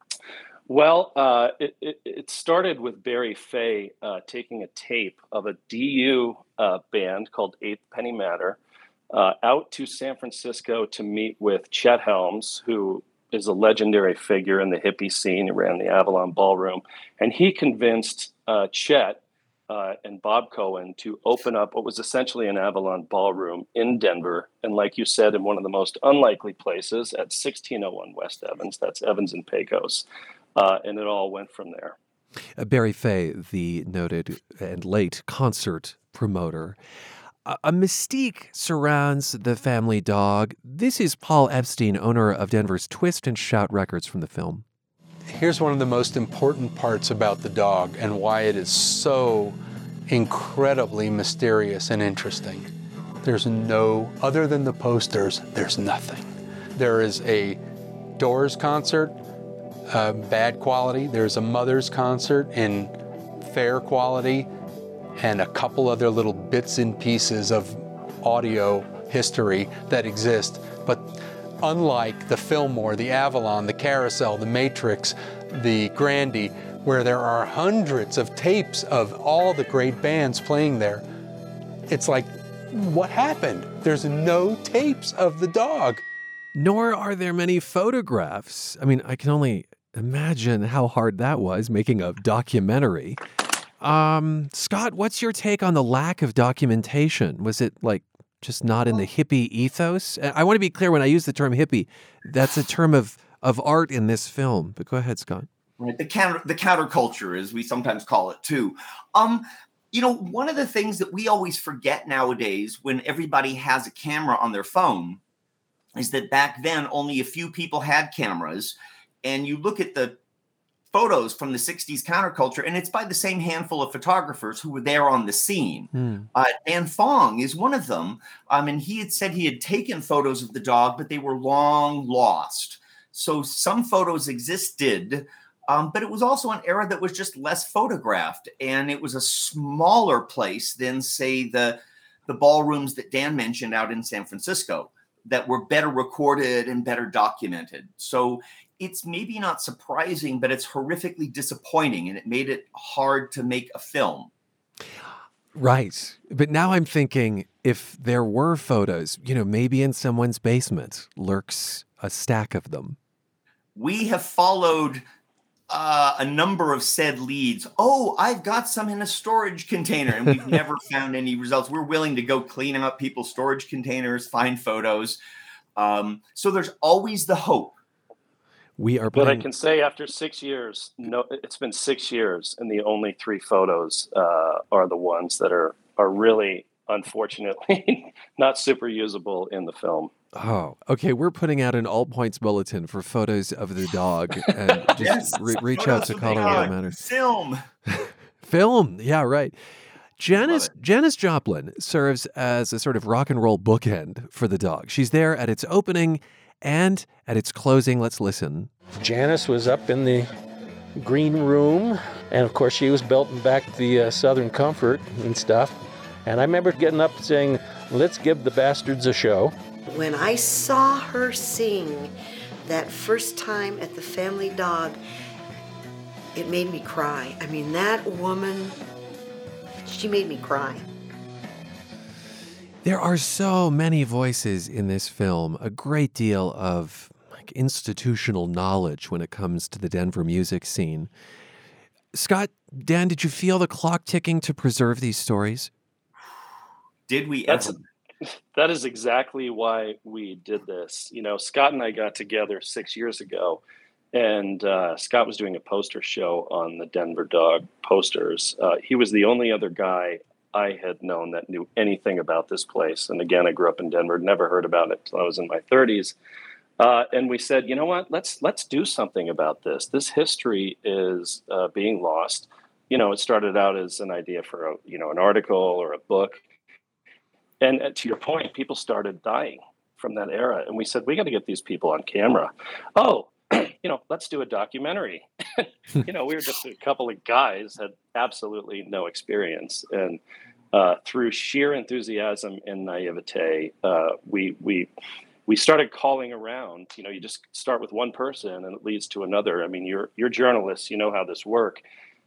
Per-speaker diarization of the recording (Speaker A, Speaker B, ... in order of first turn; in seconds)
Speaker A: 0.7-8.6, 9.1-31.9, 179.1-190.1, 247.5-247.7, 248.5-253.6, 254.1-266.1, 266.8-276.4, 277.6-290.2, 290.7-294.9, 295.5-301.8
Speaker B: 32.6-36.8, 37.5-44.6, 86.5-93.2, 93.8-105.5, 125.9-126.3, 155.5-163.0, 178.8-179.5, 190.3-197.0, 197.9-199.6, 200.2-208.7, 232.8-241.1, 242.1-245.7
Speaker C: 45.3-52.7, 53.2-57.6, 58.2-59.2, 59.9-64.5, 65.2-81.0, 81.9-86.0
Speaker D: 105.8-115.2, 116.0-120.2, 120.9-154.3, 163.8-165.0, 165.7-175.2, 175.8-177.8, 195.0-197.6, 200.4-200.7, 247.1-247.8
Speaker E: 208.9-210.3, 211.0-219.6
Speaker F: 219.9-222.1, 222.6-225.0, 226.3-228.8, 229.8-230.8